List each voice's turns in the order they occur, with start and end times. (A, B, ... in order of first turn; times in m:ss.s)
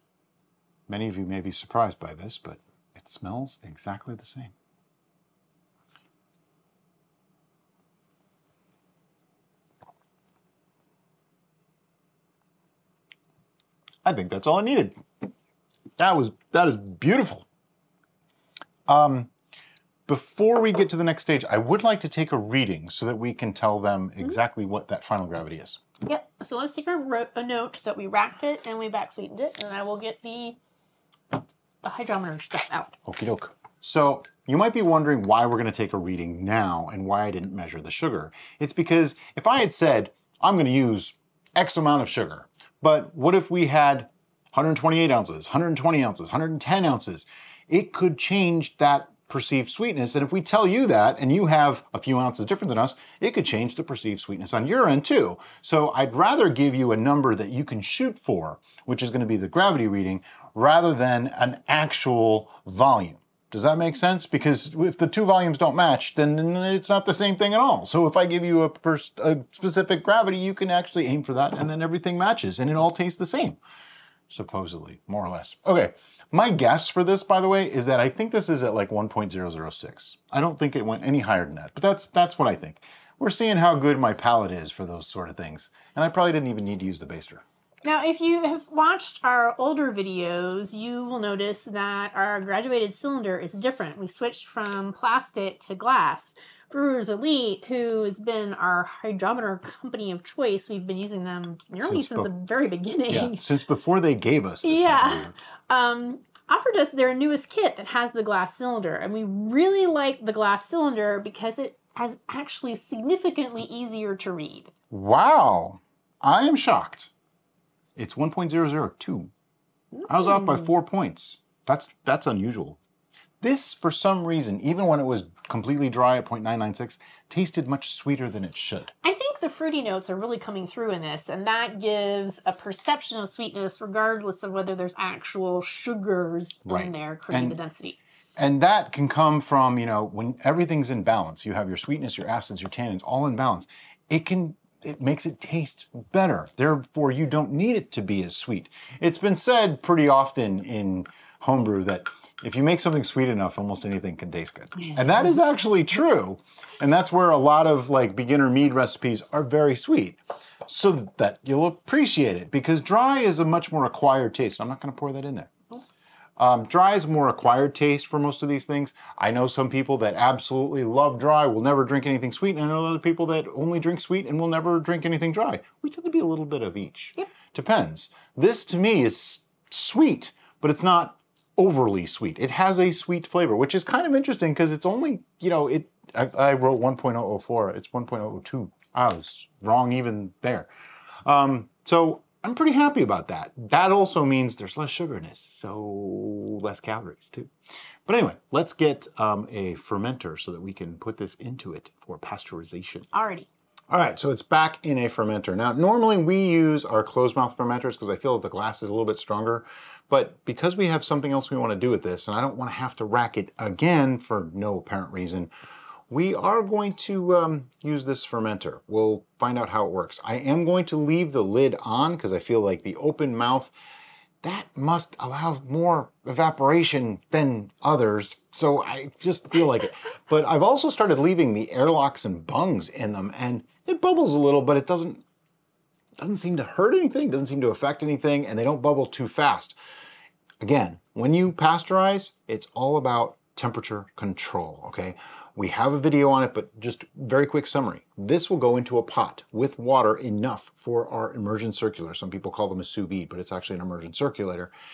0:00.9-0:04.5 A
0:14.0-0:15.0 A
0:16.0-0:17.4 A
0:18.9-0:19.3 A
0:20.1-0:25.8 A
0:26.0-0:30.6 B
0:31.8-0:33.0 B
0:33.0-1:13.6 A
1:14.3-1:27.4 A
1:27.8-1:43.4 B
1:41.8-1:42.3 A
1:43.1-1:45.3 A
1:44.6-1:54.7 B
1:54.9-1:57.1 A
1:58.0-1:59.3 A
1:59.9-2:00.7 B
2:00.1-2:02.8 A
2:03.4-2:08.9 A
2:09.0-2:18.0 B
2:16.6-2:17.6 A
2:18.4-2:45.5 A
2:46.4-3:10.7 A
3:11.2-3:17.5 A
3:18.0-3:23.1 A
3:23.1-3:23.5 B
3:23.9-3:35.5 A
3:36.1-3:43.7 A
3:44.4-3:55.2 A
3:56.2-3:59.8 A
4:00.6-4:14.7 A